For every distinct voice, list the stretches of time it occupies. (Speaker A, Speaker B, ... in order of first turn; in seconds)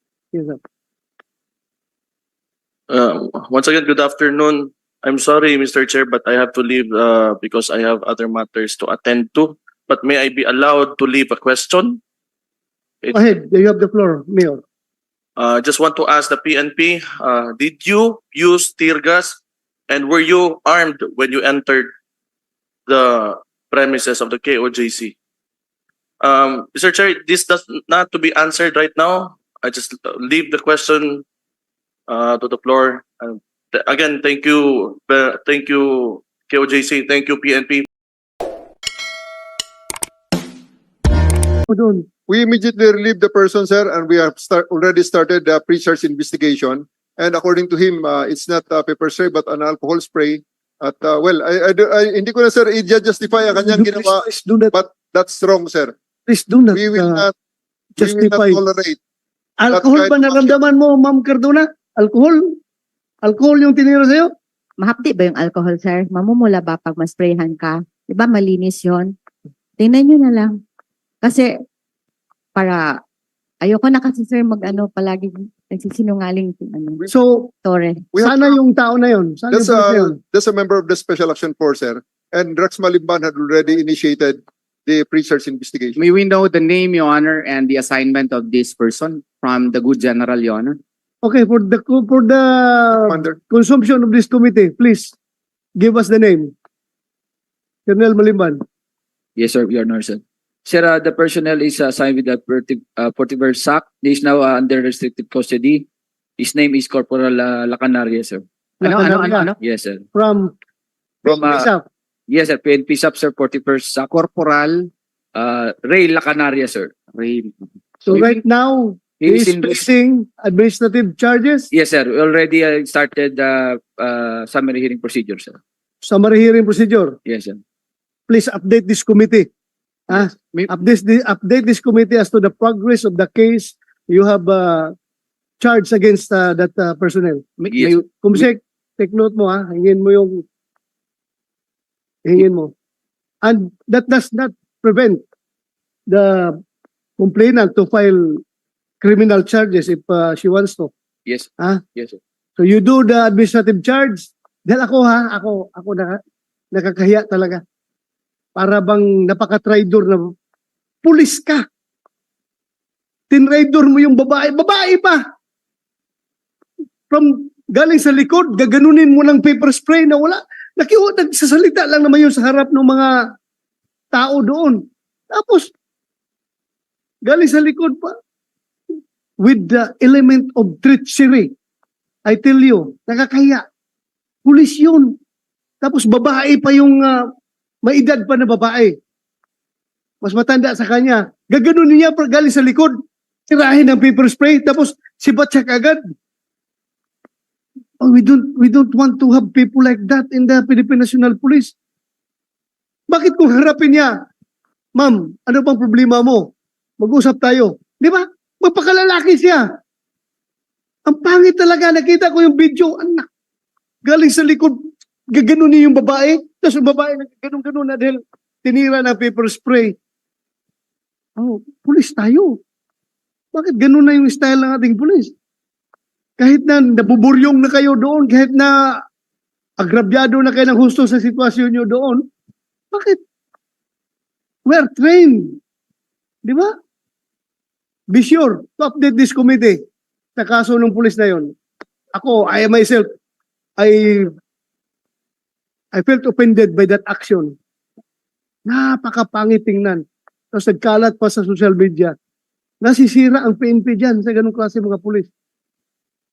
Speaker A: 0.3-0.6, 13.1-14.6, 41.7-42.1, 53.7-54.7, 56.3-57.3, 58.0-58.6, 59.6-62.6, 63.2-64.3, 77.1-77.5, 78.2-80.2, 91.2-95.1, 95.8-96.5, 97.9-98.6, 108.8-109.5, 110.1-110.5, 111.2-111.8, 118.1-121.7, 126.0-127.2, 128.3-129.5, 130.1-134.9, 135.6-137.5, 138.2-140.4, 142.2-142.7, 143.4-145.2, 146.1-146.6, 147.2-148.4, 149.0-150.9, 152.6-156.2, 156.7-157.6, 158.6-160.3, 161.0-161.7, 163.3-165.2, 167.1-173.3, 174.1-175.7, 177.3-178.2, 179.4-181.5, 182.3-183.7, 184.4-185.2, 185.8-187.3, 187.8-189.0, 190.2-193.0, 193.5-196.0, 198.0-201.7, 203.1-204.1, 204.9-209.7, 211.1-213.3, 214.1-220.0, 221.4-222.6, 223.5-225.3, 226.4-229.0, 229.8-232.3, 232.9-233.2, 234.7-235.6, 236.4-236.7, 238.1-239.8, 240.4-241.5, 242.1-243.1, 243.8-244.4, 245.9-247.6, 248.7-252.2, 252.8-255.3
Speaker B: 2.9-12.0, 15.4-21.9, 22.9-25.1, 26.2-31.2, 32.1-37.9
Speaker C: 42.3-56.0, 56.7-57.3, 58.0-59.0, 59.7-60.6, 78.1-78.6, 79.5-86.0, 93.0-93.4
Speaker D: 64.8-69.2, 69.8-70.6, 71.2-71.6, 72.6-73.0, 73.6-77.1, 77.6-78.1
Speaker E: 86.0-90.8, 108.8-109.6, 114.1-114.9, 117.1-118.4, 130.1-130.7, 137.6-138.5
Speaker F: 99.4-105.9, 106.4-108.5, 109.6-110.0, 111.3-111.7, 112.3-114.1, 115.4-116.9, 119.2-119.8, 121.7-125.6, 127.3-127.6, 137.7-138.0, 151.3-152.2